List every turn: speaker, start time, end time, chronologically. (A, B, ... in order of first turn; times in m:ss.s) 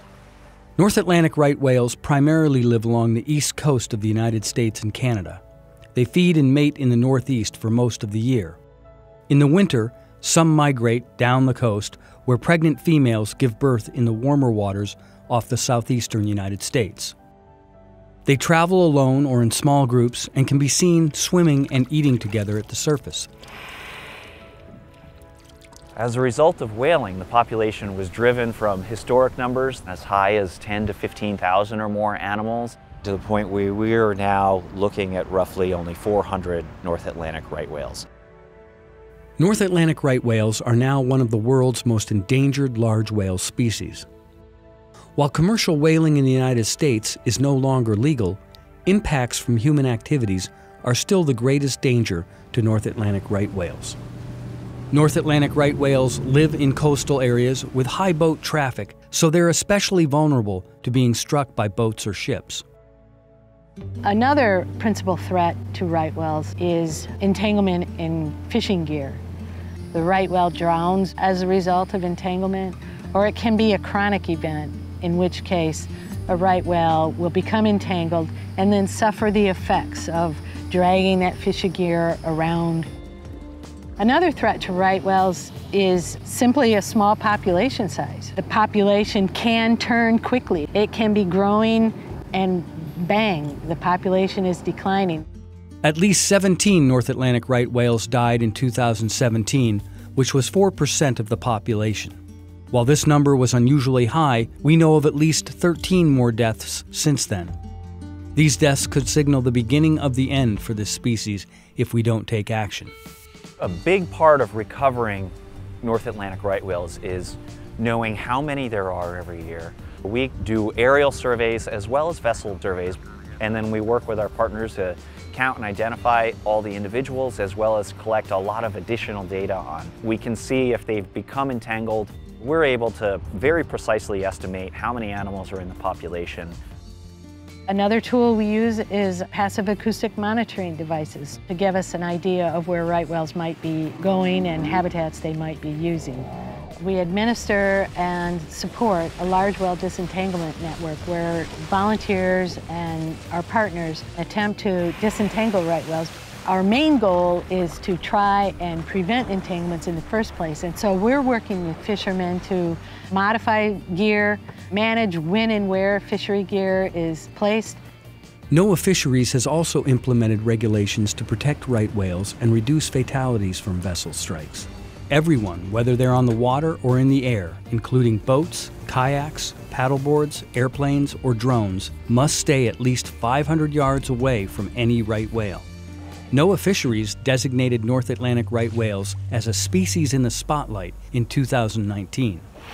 0:00.8-0:05.4 A
0:06.0-0:08.6 A
0:09.3-0:17.2 A
0:18.3-0:23.3 A
0:26.0-0:38.1 B
0:39.4-0:44.1 A
0:45.2-0:54.0 A
0:54.9-1:02.6 A
1:04.0-1:09.2 C
1:09.9-1:22.9 C
1:24.0-1:35.2 C
1:35.8-1:42.2 A
1:42.7-1:47.5 A
1:48.4-1:52.9 A
1:53.6-2:16.6 B
2:17.7-2:47.8 C
2:48.5-3:05.7 A
3:06.3-3:12.5 A